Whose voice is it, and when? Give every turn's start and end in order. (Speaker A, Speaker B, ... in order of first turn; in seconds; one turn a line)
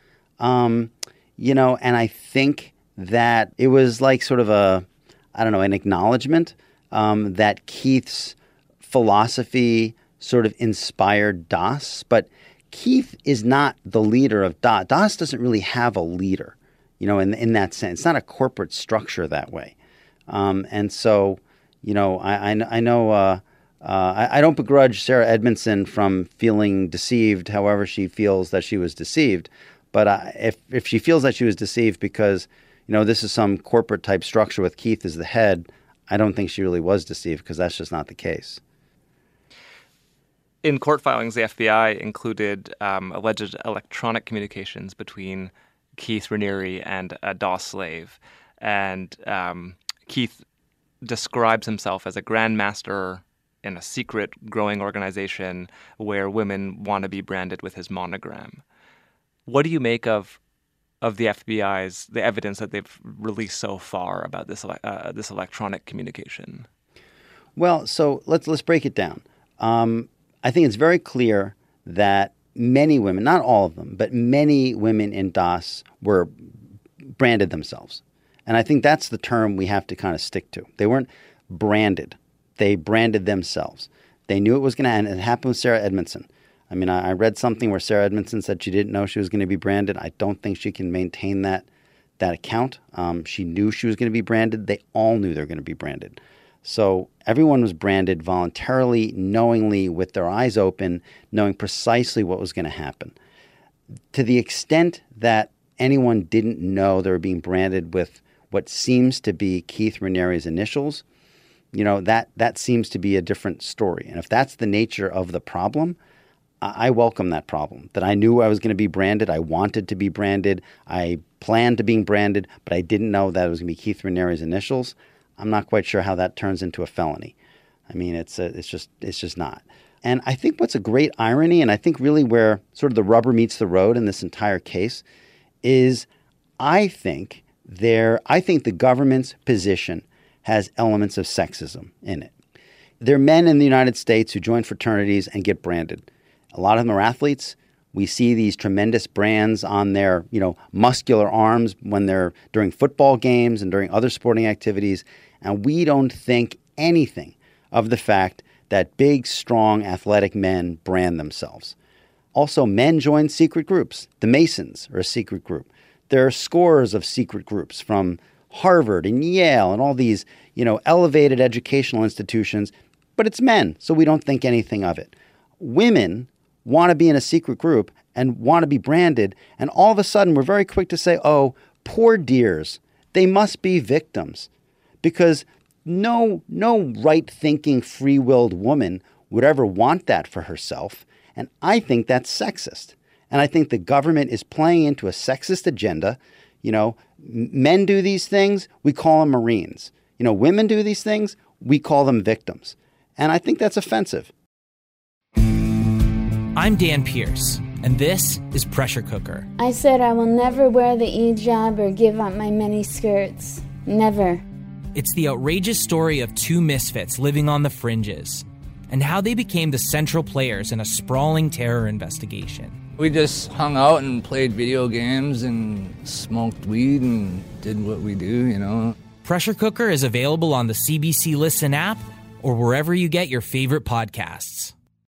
Speaker A: 0.4-19.8
Speaker A: 20.3-38.6
Speaker B: 40.6-50.4
Speaker B: 51.0-58.6
Speaker B: 59.5-60.4
Speaker B: 61.0-66.7
Speaker A: 67.6-76.5
Speaker A: 77.2-91.7
Speaker A: 92.2-103.2
Speaker A: 104.1-111.0
Speaker A: 111.7-116.0
Speaker A: 116.6-127.3
Speaker A: 127.9-135.0
Speaker A: 135.6-136.1
Speaker A: 136.6-142.3
Speaker A: 143.0-161.8
Speaker A: 162.3-184.5
Speaker A: 185.0-204.3
Speaker C: 206.6-209.5
Speaker D: 209.9-210.9
Speaker D: 211.5-213.0
Speaker C: 214.9-222.8
Speaker E: 223.0-228.8
Speaker D: 223.6-228.8
Speaker C: 229.2-234.7